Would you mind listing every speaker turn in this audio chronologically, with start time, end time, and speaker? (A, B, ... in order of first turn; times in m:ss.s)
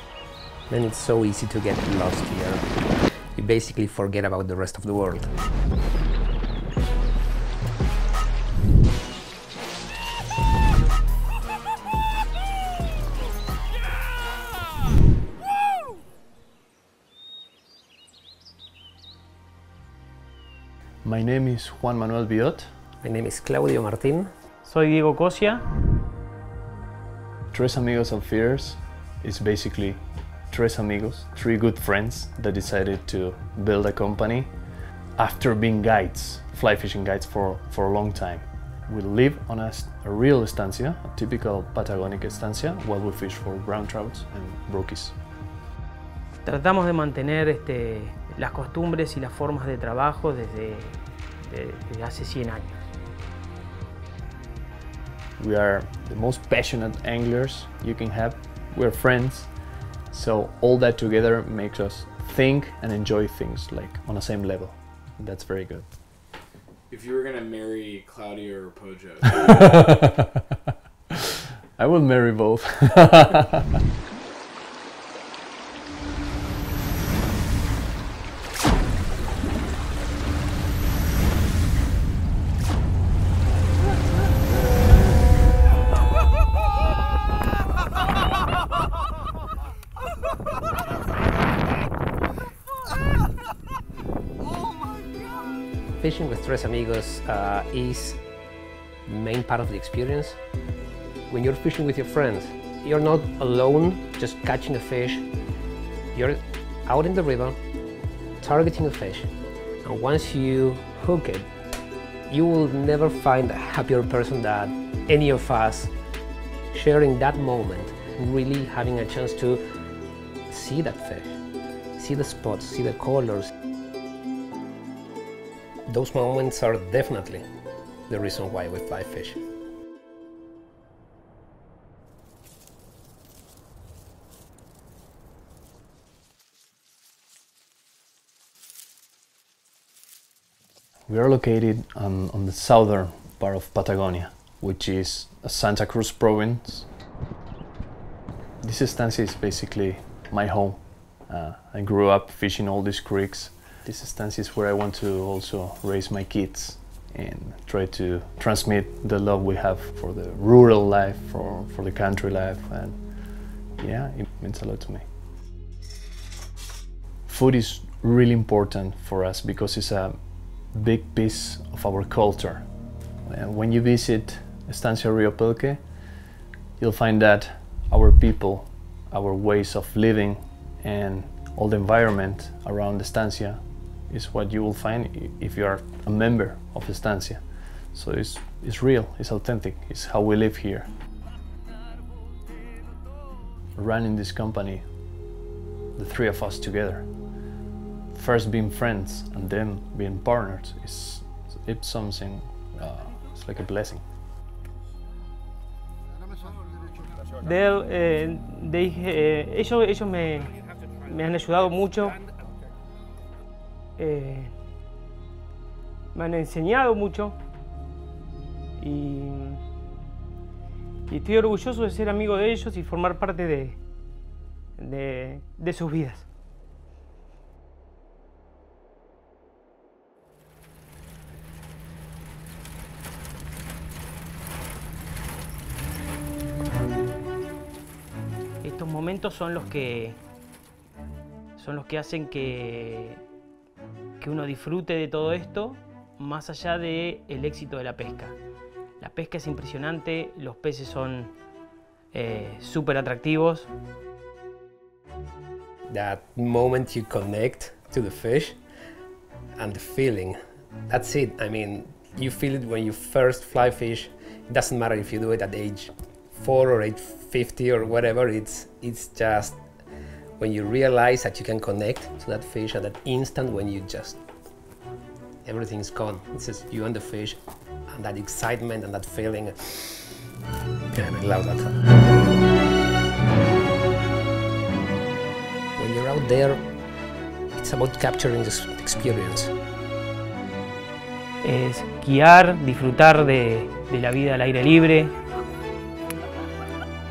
0:00.7-0:05.3 A
0:21.0-0:22.7 B
0:23.0-0:24.3 A
0:24.6-0:25.6 C
0:27.5-0:34.5 B
0:35.2-0:45.2 B
0:46.4-0:52.9 C
0:55.4-0:59.6 B
1:00.1-1:05.9 B
1:06.9-1:09.8 D
1:11.8-1:13.6 B
1:36.0-1:38.2 A
1:39.0-1:40.4 A
1:41.3-1:45.3 A
1:46.1-1:47.6 A
1:48.4-1:49.3 A
1:49.8-1:51.5 A
1:52.3-1:55.9 A
1:56.7-1:59.6 A
2:00.5-2:01.4 A
2:01.9-2:03.5 A
2:05.9-2:07.4 A
2:08.1-2:09.4 A
2:21.1-2:26.9 B
2:28.6-2:43.0 B
2:43.8-2:45.0 B
2:47.3-2:50.2 B
2:50.7-2:52.6 B
2:53.2-2:55.9 B
2:56.8-3:10.9 B
3:13.8-3:14.8 B
3:16.0-3:17.1 B
3:18.1-3:24.0 B
3:27.4-3:32.2 C
3:34.0-3:34.5 C
3:36.1-3:37.4 C
3:38.8-3:39.6 C
3:41.1-3:43.8 C
3:44.8-3:46.2 C
3:58.6-4:00.2 C
4:01.6-4:03.2 C
4:04.2-4:08.4 C
4:09.0-4:11.3 C
4:12.1-4:13.7 C
4:15.9-4:18.6 A
4:19.5-4:29.6 A
4:30.4-4:34.2 A
4:35.4-4:40.2 A
4:40.9-4:41.9 A
4:45.8-4:46.6 A
4:47.6-4:49.5 A
4:51.4-4:55.1 C